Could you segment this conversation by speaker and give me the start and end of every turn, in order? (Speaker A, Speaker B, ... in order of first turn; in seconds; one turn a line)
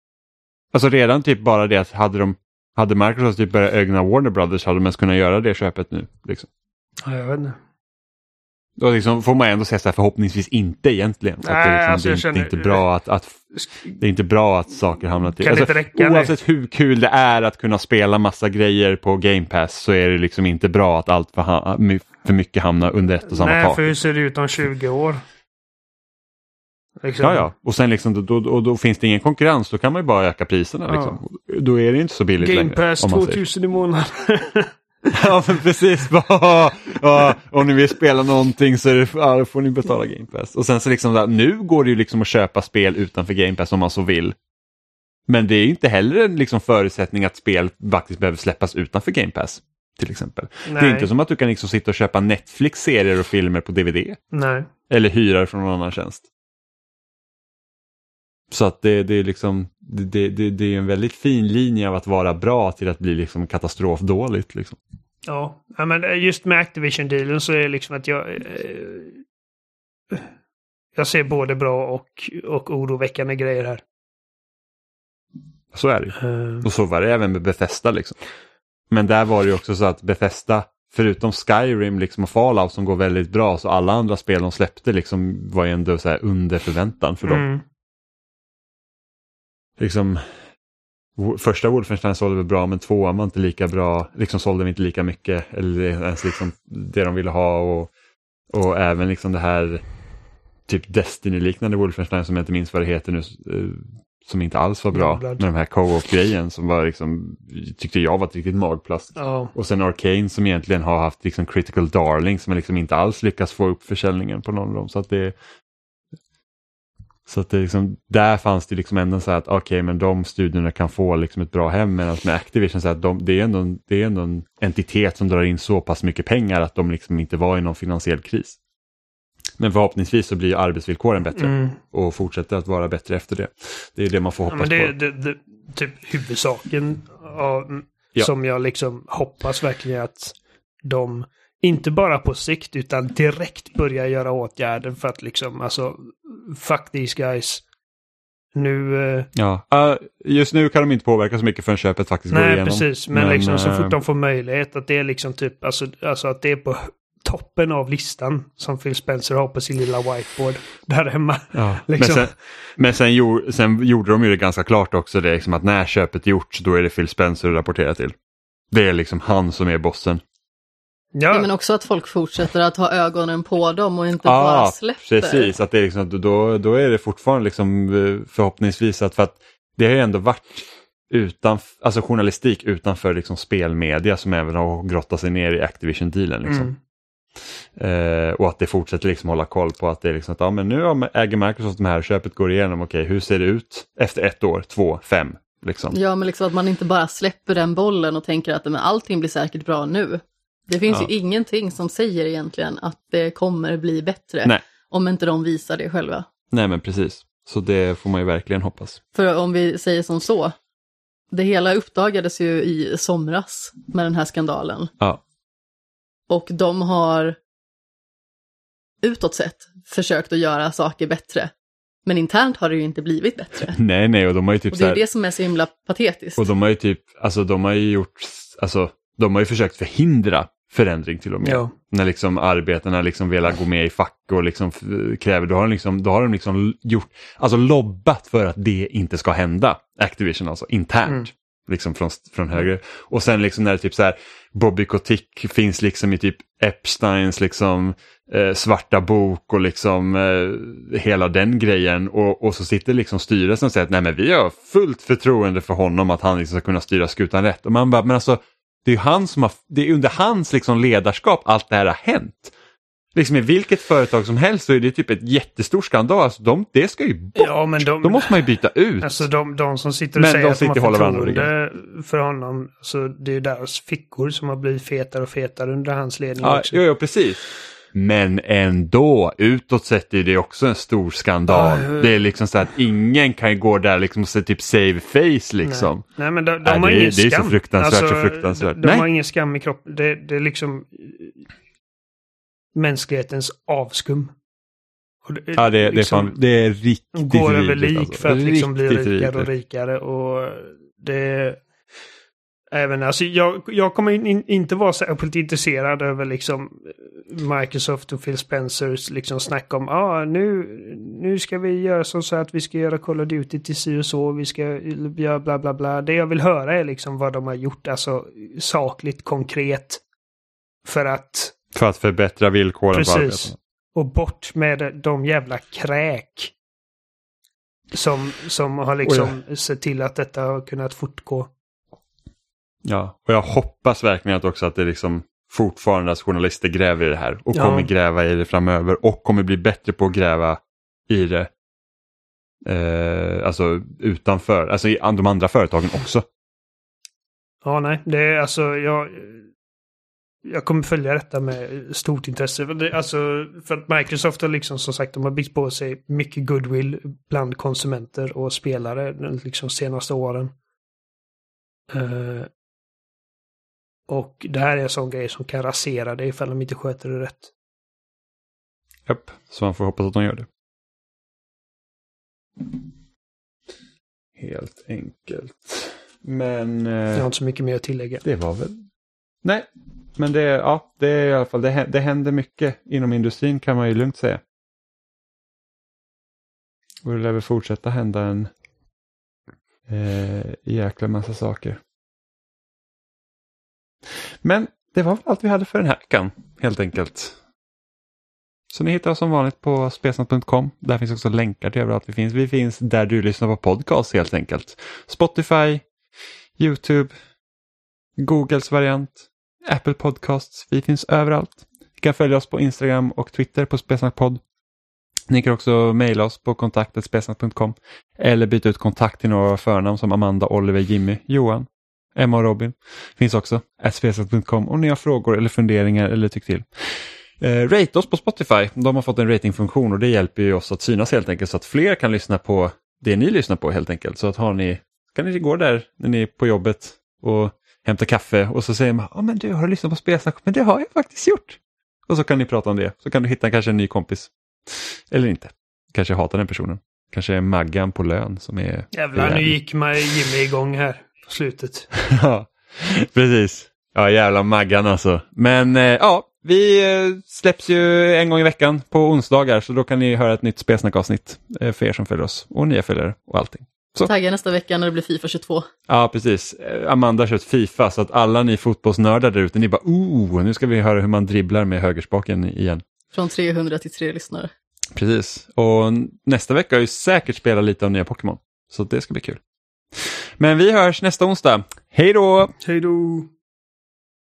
Speaker A: 0.7-6.5
Speaker B: 7.0-7.6
Speaker A: 8.8-13.4
Speaker B: 11.4-12.9
Speaker B: 13.6-13.9
Speaker A: 14.0-23.9
Speaker B: 15.4-16.4
Speaker B: 23.3-25.2
Speaker B: 27.0-27.4
Speaker A: 27.2-33.4
Speaker B: 30.9-31.2
Speaker B: 32.4-35.1
Speaker A: 35.1-44.4
Speaker A: 45.3-54.2
Speaker B: 50.7-51.1
Speaker B: 54.3-54.7
Speaker A: 54.9-56.2
Speaker A: 58.5-64.8
Speaker B: 65.3-69.2
Speaker B: 71.0-73.8
Speaker A: 75.7-78.2
Speaker B: 76.2-76.7
Speaker A: 78.9-87.5
Speaker B: 87.2-87.6
Speaker A: 89.8-90.3
Speaker A: 91.2-97.9
Speaker A: 98.5-99.8
Speaker A: 100.7-115.4
Speaker B: 104.9-105.5
Speaker B: 109.2-109.5
Speaker A: 117.3-128.6
Speaker A: 129.6-134.9
Speaker B: 131.4-131.8
Speaker B: 134.5-147.6
Speaker B: 148.5-149.3
Speaker A: 149.3-154.0
Speaker B: 152.3-162.4
Speaker A: 161.5-168.2
Speaker A: 168.7-170.2
Speaker B: 171.2-171.5
Speaker C: 171.3-175.5
Speaker A: 174.2-186.7
Speaker B: 186.4-186.8
Speaker A: 187.8-196.0
Speaker C: 195.9-206.3
Speaker A: 206.5-209.0
Speaker C: 209.1-210.6
Speaker C: 211.3-214.9
Speaker C: 216.3-217.4
Speaker C: 219.0-221.5
Speaker C: 222.1-223.8
Speaker A: 223.7-225.0
Speaker C: 224.7-226.5
Speaker A: 226.4-262.5
Speaker B: 231.4-231.7
Speaker A: 263.1-269.3
Speaker B: 267.4-268.5
Speaker B: 269.0-276.8
Speaker A: 270.2-271.5
Speaker A: 276.4-286.0
Speaker B: 281.5-282.1
Speaker B: 285.6-291.4
Speaker A: 286.6-289.1
Speaker B: 292.8-294.3
Speaker B: 295.2-296.4
Speaker A: 295.6-299.5
Speaker B: 297.1-301.6
Speaker B: 302.7-320.0
Speaker B: 320.9-321.5
Speaker A: 321.7-323.6
Speaker B: 322.9-326.5
Speaker B: 327.9-331.5
Speaker A: 329.0-329.4
Speaker A: 332.9-341.5
Speaker B: 337.5-337.9
Speaker A: 342.6-346.2
Speaker B: 347.6-349.5
Speaker B: 350.4-360.5
Speaker B: 361.9-362.5
Speaker B: 364.1-367.5
Speaker A: 369.1-370.5
Speaker A: 374.4-377.3
Speaker B: 377.1-378.2
Speaker A: 378.2-378.8
Speaker A: 379.4-384.4
Speaker A: 387.0-388.5
Speaker A: 389.9-391.8
Speaker A: 394.2-397.4
Speaker A: 398.7-405.9
Speaker A: 406.6-407.1
Speaker A: 408.2-414.4
Speaker A: 415.3-449.6
Speaker B: 448.9-451.9
Speaker A: 452.0-464.1
Speaker C: 464.1-465.7
Speaker A: 465.9-472.8
Speaker C: 473.1-474.5
Speaker A: 474.9-479.4
Speaker A: 480.0-482.6
Speaker B: 482.6-483.3